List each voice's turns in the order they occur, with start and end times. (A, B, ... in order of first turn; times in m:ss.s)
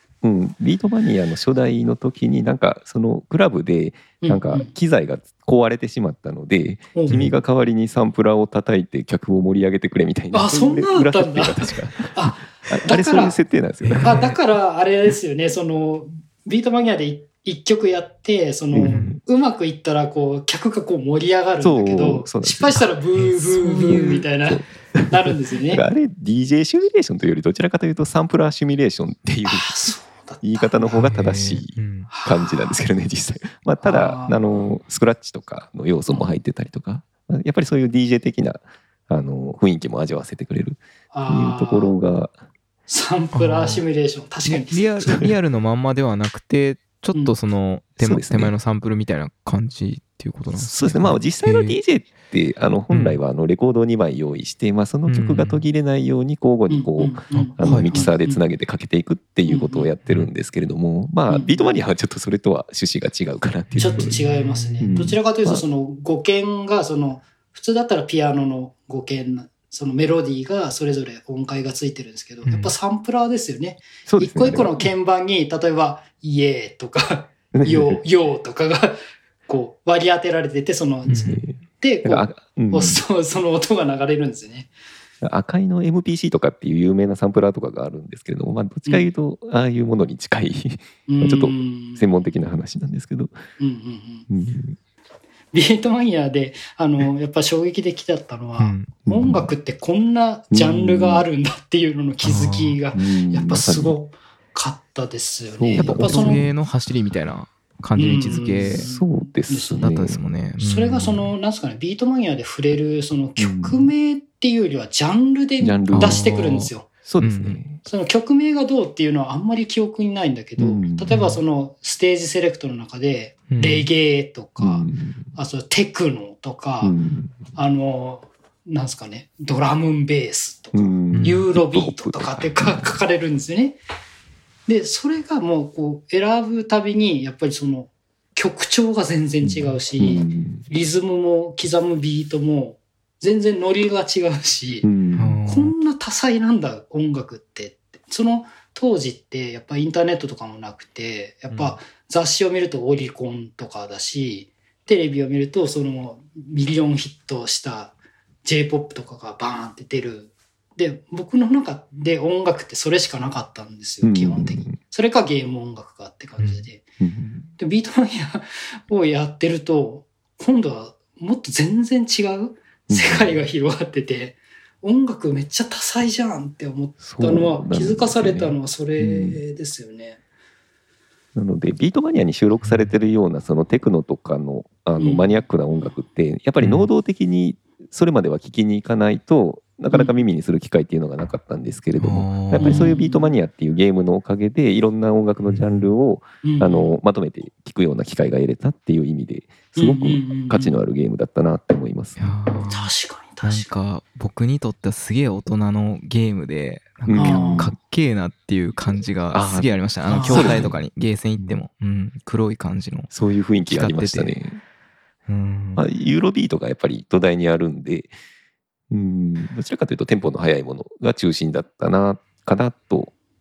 0:00.2-0:14.4 A
0:04.2-0:04.7 B
0:06.9-0:07.2 B
0:07.1-0:07.3 C
0:10.3-0:13.4 B
0:13.8-0:14.4 C
0:14.0-0:25.9 B
0:18.7-0:19.2 A
0:18.9-0:19.2 C
0:21.6-0:22.9 A
0:22.8-0:24.2 C
0:23.9-0:29.8 A
0:29.4-0:30.9 B
0:30.4-0:42.4 A
0:30.9-0:32.1 C
0:32.1-0:32.8 B
0:33.8-0:34.4 B
0:36.1-0:36.4 B
0:41.1-0:42.0 B
0:42.9-0:45.2 B
0:43.3-0:43.8 C
0:44.5-0:51.8 C
0:48.0-0:48.5 A
0:50.5-1:04.2 A
0:52.9-0:53.2 C
0:55.1-0:55.6 C
0:56.7-0:58.4 B
0:57.3-0:58.0 C
0:59.5-0:59.9 B
1:01.3-1:01.8 B
1:03.7-1:05.0 C
1:03.8-1:24.7 B
1:04.8-1:05.6 A
1:12.4-1:12.7 C
1:14.1-1:14.9 A
1:17.5-1:18.0 A
1:21.1-1:23.0 A
1:21.1-1:21.4 C
1:25.2-1:33.4 A
1:31.1-1:32.0 B
1:33.6-1:34.3 B
1:34.3-1:34.8 A
1:35.5-1:46.4 B
1:38.6-1:38.9 C
1:39.1-1:39.5 A
1:40.5-1:41.2 A
1:42.2-1:42.8 C
1:42.9-1:44.0 A
1:45.5-1:46.5 A
1:45.8-1:48.9 C
1:48.0-1:49.9 B
1:48.6-1:50.2 A
1:49.8-1:51.3 C
1:50.6-1:56.9 B
1:53.4-1:53.9 A
1:55.6-1:56.5 A
1:55.9-1:57.6 C
1:57.0-1:57.8 A
1:57.8-2:07.0 B
2:00.6-2:01.1 A
2:01.1-2:01.4 C
2:03.5-2:03.9 C
2:04.6-2:05.4 A
2:06.8-2:07.5 A
2:07.5-2:13.8 B
2:10.7-2:13.0 A
2:11.1-2:11.5 C
2:14.7-2:24.9 B
2:19.4-2:20.7 A
2:24.8-2:25.3 A
2:25.2-2:25.7 C
2:25.5-2:46.8 B
2:31.5-2:31.8 C
2:44.0-2:44.8 A
2:46.4-2:46.7 C
2:47.0-2:47.5 A
2:47.6-3:00.2 B
2:52.9-2:53.4 A
2:57.0-2:59.4 A
3:01.4-3:22.4 A
3:02.6-3:02.9 C
3:05.0-3:05.9 B
3:06.6-3:06.9 C
3:09.9-3:10.2 B
3:12.0-3:12.9 C
3:12.6-3:13.3 B
3:15.4-3:15.9 C
3:16.4-3:17.0 B
3:19.7-3:20.8 B
3:22.2-3:22.9 C
3:22.7-3:23.7 B
3:23.4-3:33.1 C
3:27.1-3:27.8 A
3:27.2-3:27.7 B
3:29.3-3:30.8 A
3:30.1-3:30.7 B
3:33.1-3:34.6 A
3:33.7-3:34.4 C
3:35.3-3:35.8 C
3:35.8-3:38.2 A
3:38.9-3:43.1 A